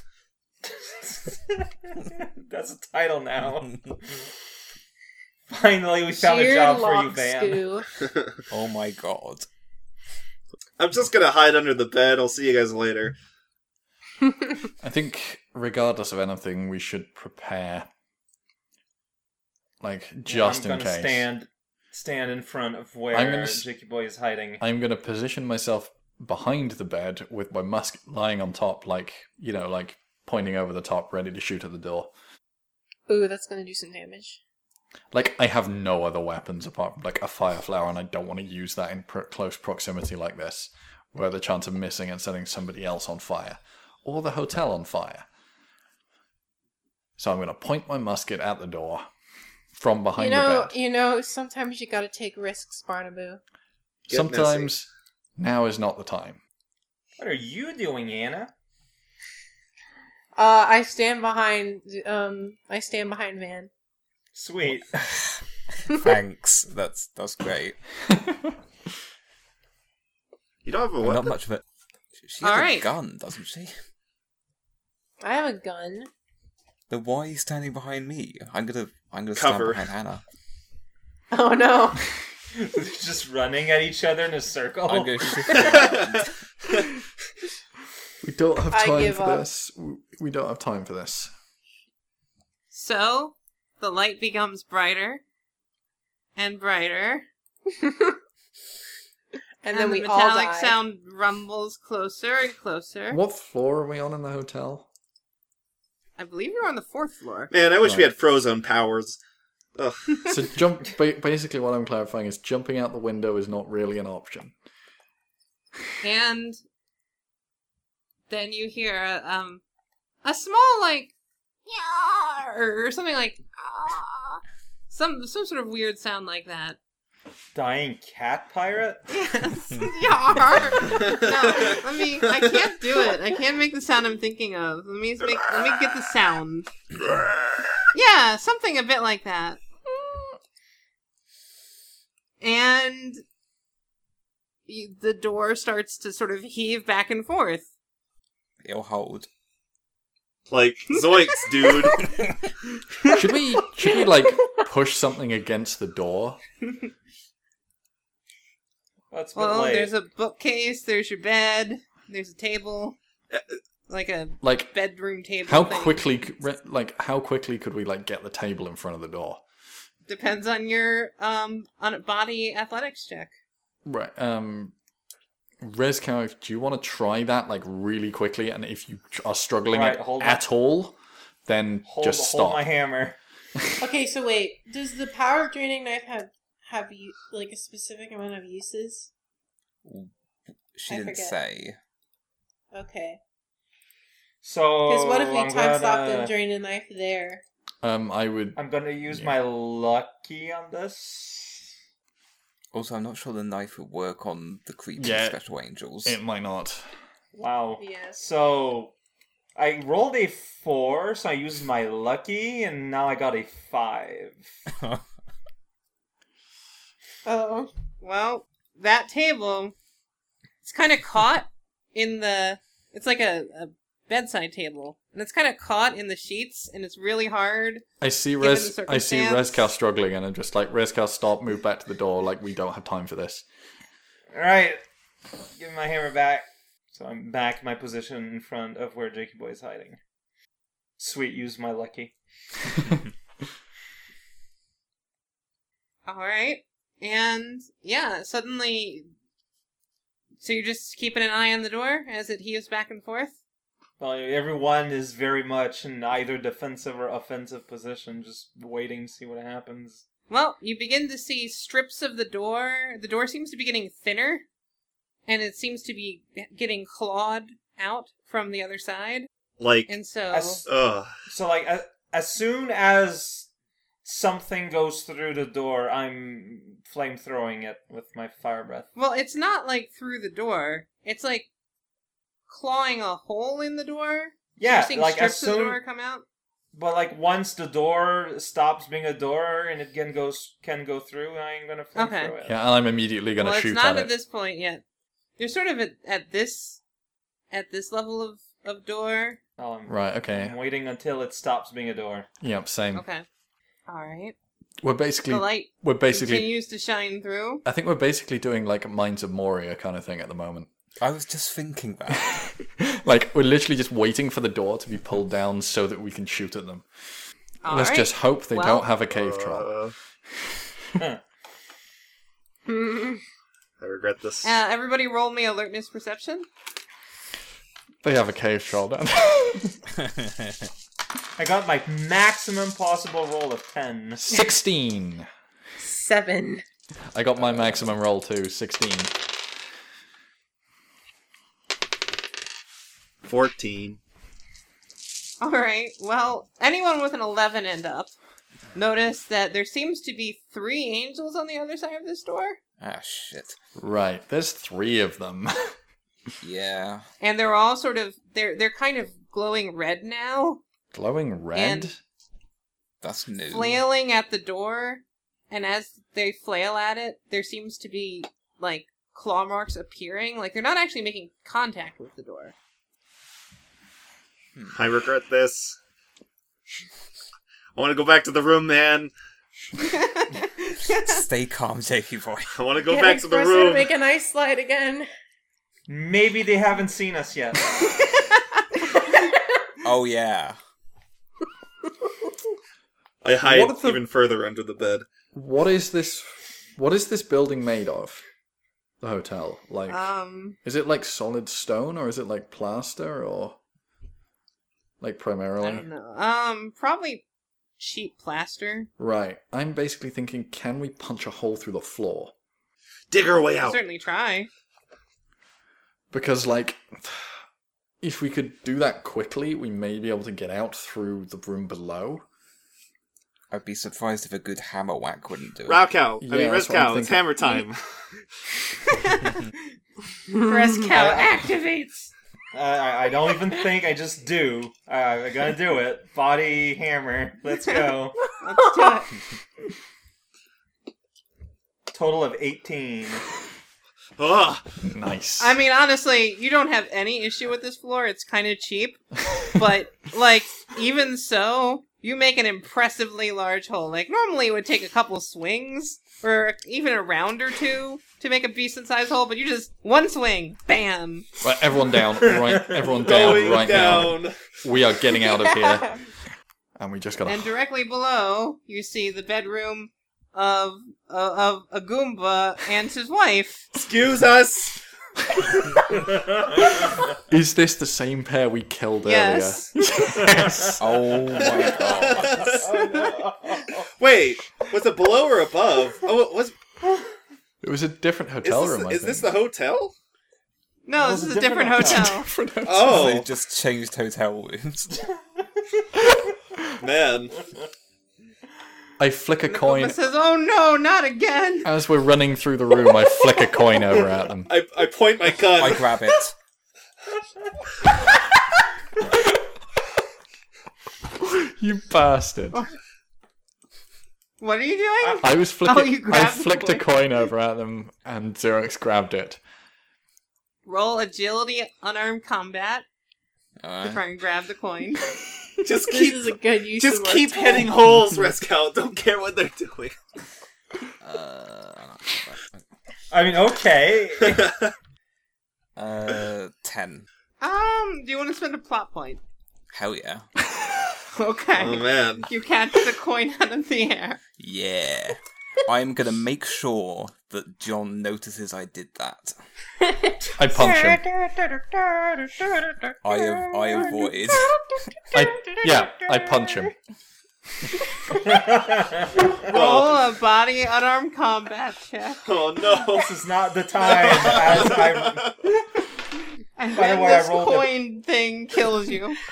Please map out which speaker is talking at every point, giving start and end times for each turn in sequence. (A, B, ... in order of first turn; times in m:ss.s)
0:00.6-0:04.2 A
0:05.5-0:07.7 A
0:06.2-0:07.9 B
0:08.0-0:08.4 C
0:08.5-0:09.5 D
0:10.8-0:13.2 C
0:14.8-0:17.9 E
0:19.8-0:21.3 E
0:20.3-0:24.6 A
0:23.1-0:23.6 E
0:24.6-0:32.1 E
0:33.1-0:34.4 B
0:35.1-0:45.3 E
0:47.2-0:49.1 E
0:49.8-0:50.8 E
0:50.2-0:53.4 B
0:54.1-0:54.7 C
0:54.1-0:56.4 E
0:57.2-0:58.5 A
1:00.4-1:03.7 B
1:04.4-1:05.0 A
1:04.9-1:07.8 D
1:08.1-1:08.6 E
1:10.6-1:11.4 C
1:11.0-1:11.6 D
1:12.2-1:13.7 D
1:12.4-1:12.9 F
1:15.2-1:16.1 B
1:16.9-1:20.2 D
1:19.4-1:19.9 C
1:21.3-1:22.0 B
1:22.5-1:25.7 A
1:24.9-1:26.3 D
1:25.5-1:26.8 C
1:28.2-1:31.3 E
1:28.7-1:29.4 B
1:32.7-1:35.2 F
1:36.4-1:37.3 F
1:37.8-1:38.1 B
1:39.6-1:40.8 B
1:39.7-1:43.2 F
1:43.1-1:44.9 E
1:46.2-1:47.5 F
1:47.5-1:49.2 C
1:47.8-1:48.1 E
1:49.8-1:50.5 C
1:50.3-1:54.5 E
1:56.0-1:56.6 F
1:58.3-1:59.6 F
2:00.2-2:01.1 F
2:01.7-2:06.8 F
2:07.6-2:09.1 A
2:09.1-2:16.7 F
2:11.1-2:11.8 C
2:17.9-2:19.6 F
2:22.4-2:23.2 F
2:24.7-2:27.7 F
2:28.6-2:29.3 D
2:30.5-2:32.1 C
2:33.1-2:36.4 E
2:39.1-2:39.9 A
2:39.4-2:43.0 F
2:43.9-2:46.2 F
2:44.4-2:44.7 E
2:45.5-2:49.4 E
2:50.1-2:53.3 F
2:53.8-2:54.7 E
2:55.6-3:02.6 E
2:59.7-3:00.4 A
3:01.9-3:03.2 A
3:03.8-3:09.1 B
3:09.8-3:10.1 D
3:10.8-3:11.8 D
3:10.9-3:11.4 B
3:12.7-3:13.2 B
3:14.4-3:16.3 A
3:14.9-3:17.4 B
3:17.8-3:19.3 E
3:18.6-3:21.7 A
3:22.7-3:26.2 D
3:25.0-3:25.4 E
3:26.0-3:26.8 E
3:27.4-3:28.9 A
3:27.8-3:28.2 B
3:29.6-3:34.5 A
3:34.8-3:35.0 D
3:37.3-3:37.7 B
3:38.0-3:39.8 F
3:40.6-3:47.8 F
3:48.0-3:53.4 E
3:48.4-3:49.7 F
3:54.3-3:54.8 A
3:55.6-4:00.0 A
4:01.0-4:02.1 A
4:06.1-4:09.1 F
4:10.4-4:13.4 F
4:14.0-4:20.0 A
4:20.3-4:24.4 F
4:25.3-4:29.3 F
4:29.6-4:29.9 C
4:29.9-4:30.6 F
4:30.3-4:30.7 A
4:30.7-4:31.1 C
4:31.3-4:33.5 A
4:34.0-4:38.9 A
4:39.0-4:41.5 F
4:42.5-4:46.2 F
4:44.6-4:45.8 A
4:46.7-4:52.6 A
4:52.0-4:52.3 F
4:52.4-4:54.1 E
4:53.4-4:54.8 F
4:55.4-4:56.8 F
4:57.5-4:59.4 F
4:59.6-5:02.3 A
4:59.9-5:00.6 E
5:02.4-5:03.0 E
5:02.9-5:03.3 F
5:03.9-5:04.4 F
5:04.8-5:06.5 E
5:05.3-5:07.6 F
5:07.6-5:10.7 E
5:11.0-5:12.3 D
5:12.3-5:16.8 E
5:17.6-5:18.8 F
5:17.7-5:19.7 E
5:19.1-5:19.9 C
5:22.7-5:23.2 B
5:23.8-5:24.5 C
5:24.4-5:26.5 F
5:28.0-5:29.8 E
5:30.0-5:30.6 D
5:31.4-5:34.3 A
5:34.2-5:35.3 E
5:35.8-5:36.6 B
5:37.1-5:39.1 E
5:37.4-5:37.9 D
5:43.2-5:44.0 C
5:45.4-5:48.2 F
5:48.8-5:52.6 F
5:52.8-5:53.6 D
5:53.8-5:55.8 E
5:56.4-5:57.1 D
5:57.2-6:00.6 F
6:00.9-6:02.0 E
6:01.5-6:01.9 F
6:03.0-6:03.8 D
6:03.5-6:12.5 F
6:14.7-6:15.8 C
6:17.8-6:19.1 C
6:19.8-6:21.2 F
6:20.9-6:22.5 D
6:22.5-6:23.9 C
6:22.9-6:25.1 B
6:25.9-6:27.8 A
6:29.8-6:30.6 D
6:33.2-6:35.1 C
6:33.4-6:34.0 E
6:35.3-6:38.2 E
6:39.0-6:40.1 E
6:39.9-6:40.6 F
6:40.6-6:43.6 E
6:45.0-6:45.9 E
6:45.6-6:47.2 F
6:47.8-6:48.9 F
6:49.0-6:52.3 E
6:53.1-6:53.8 C
6:53.6-6:54.5 F
6:56.1-6:57.3 E
6:58.0-7:02.3 E
7:03.5-7:05.9 D
7:05.7-7:07.8 C
7:06.2-7:07.3 E
7:10.3-7:12.1 F
7:11.0-7:11.2 A
7:12.5-7:18.2 A
7:18.4-7:19.1 F
7:18.6-7:19.1 B
7:21.9-7:23.2 A
7:24.2-7:24.7 C
7:24.8-7:25.6 E
7:25.4-7:41.3 F
7:41.4-7:46.0 E
7:42.3-7:43.0 A
7:43.0-7:44.6 C
7:45.2-7:46.0 B
7:46.8-7:47.5 E
7:47.3-7:53.7 F
7:53.7-7:54.8 C
7:55.3-7:56.0 E
7:56.2-7:56.8 A
7:56.8-8:00.8 E
7:59.0-7:59.7 F
8:00.2-8:00.8 A
8:00.8-8:02.5 D
8:01.4-8:03.3 C
8:02.6-8:03.8 A
8:03.9-8:06.6 C
8:07.6-8:09.3 E
8:08.4-8:09.9 C
8:10.9-8:12.3 F
8:11.0-8:12.1 A
8:11.8-8:13.1 E
8:12.6-8:13.3 C
8:12.8-8:15.1 D
8:16.8-8:17.4 C
8:19.0-8:20.0 E
8:19.5-8:21.7 F
8:21.6-8:24.5 E
8:24.5-8:26.0 C
8:25.5-8:26.3 D
8:31.2-8:32.7 E
8:34.4-8:36.9 F
8:35.2-8:39.4 E
8:40.7-8:42.8 F
8:43.6-8:44.0 D
8:43.8-8:45.0 F
8:45.6-8:50.0 C
8:45.7-8:47.7 B
8:51.0-8:52.6 D
8:53.1-8:54.6 A
8:54.3-8:54.7 C
8:55.8-8:57.1 D
8:57.4-8:59.2 F
8:59.7-9:00.3 D
9:01.1-9:04.2 F
9:01.6-9:02.3 C
9:04.4-9:09.4 D
9:09.8-9:16.7 B
9:10.4-9:11.0 E
9:13.0-9:14.5 D
9:15.1-9:16.7 E
9:18.2-9:19.6 A
9:19.5-9:20.0 C
9:19.5-9:22.2 F
9:22.2-9:23.2 C
9:22.9-9:25.3 A
9:23.8-9:25.4 C
9:26.6-9:29.2 F
9:26.8-9:27.7 A